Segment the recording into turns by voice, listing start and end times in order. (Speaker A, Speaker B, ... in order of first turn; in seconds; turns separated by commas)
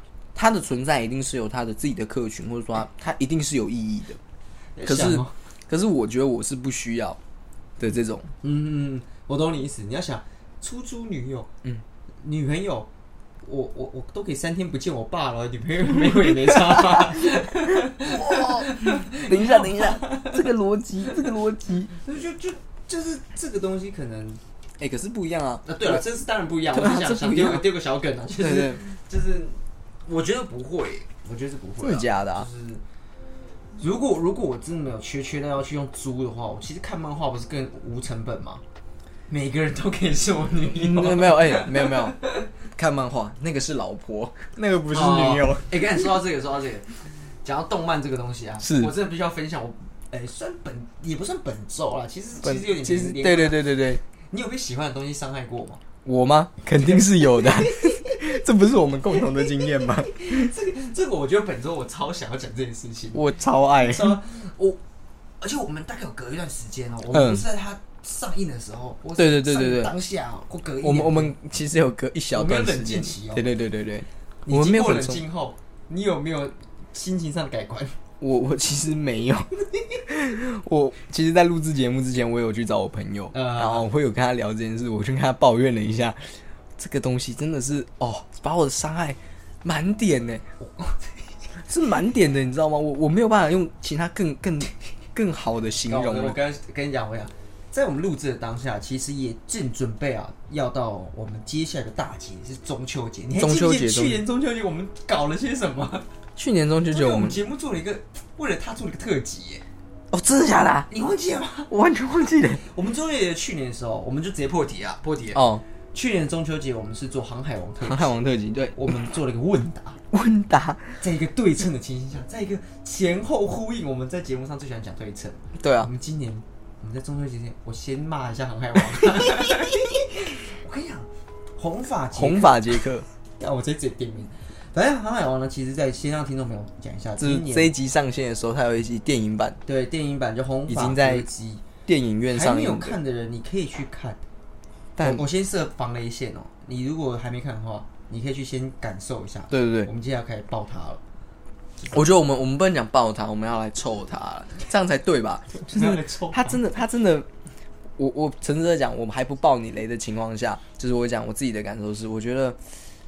Speaker A: 0.3-4.2, Speaker B: 4.8-5.3, Speaker A: 4.8-7.2, Speaker A: 7.8-8.3, Speaker B: 8.4-11.5, Speaker B: 12.2-12.9, Speaker B: 13.4-20.4, Speaker A: 15.9-21.9, Speaker B: 21.9-24.4, Speaker A: 24.8-26.0, Speaker B: 25.6-32.8, Speaker A: 26.7-27.7, Speaker A: 28.4-28.8, Speaker A: 31.8-32.5, Speaker B: 33.8-38.6, Speaker B: 39.3-42.3, Speaker A: 40.7-42.2, Speaker A: 42.8-46.2, Speaker B: 44.9-53.7, Speaker A: 48.6-48.9, Speaker A: 52.4-54.0, Speaker B: 54.2-55.8, Speaker A: 56.0-60.5, Speaker B: 56.8-58.4, Speaker B: 59.1-64.8, Speaker A: 63.1-64.2, Speaker B: 65.4-71.3, Speaker A: 67.1-67.4, Speaker A: 69.2-69.9, Speaker A: 70.8-75.2, Speaker B: 72.3-73.5, Speaker B: 74.5-78.0, Speaker A: 78.2-79.5, Speaker A: 80.0-90.4, Speaker B: 83.3-83.9, Speaker B: 90.6-91.1, Speaker A: 91.7-96.4, Speaker B: 95.8-106.0, Speaker A: 103.4-104.2, Speaker A: 106.3-107.4, Speaker B: 106.9-109.6, Speaker A: 110.1-110.9, Speaker B: 110.9-111.7, Speaker A: 111.7-112.6, Speaker B: 112.7-118.2, Speaker A: 115.3-115.6, Speaker A: 117.8-118.9, Speaker B: 118.7-120.0, Speaker A: 120.1-121.0, Speaker B: 121.0-132.9, Speaker A: 125.6-125.9, Speaker A: 129.0-129.4, Speaker A: 132.1-133.1, Speaker B: 133.4-137.7, Speaker A: 137.2-139.6, Speaker B: 139.7-141.6, Speaker A: 140.7-141.3, Speaker A: 141.8-143.0, Speaker B: 142.3-144.2, Speaker A: 145.0-145.2, Speaker B: 145.0-151.0, Speaker A: 149.5-149.9, Speaker A: 151.9-157.3, Speaker B: 155.6-156.6, Speaker A: 158.0-162.6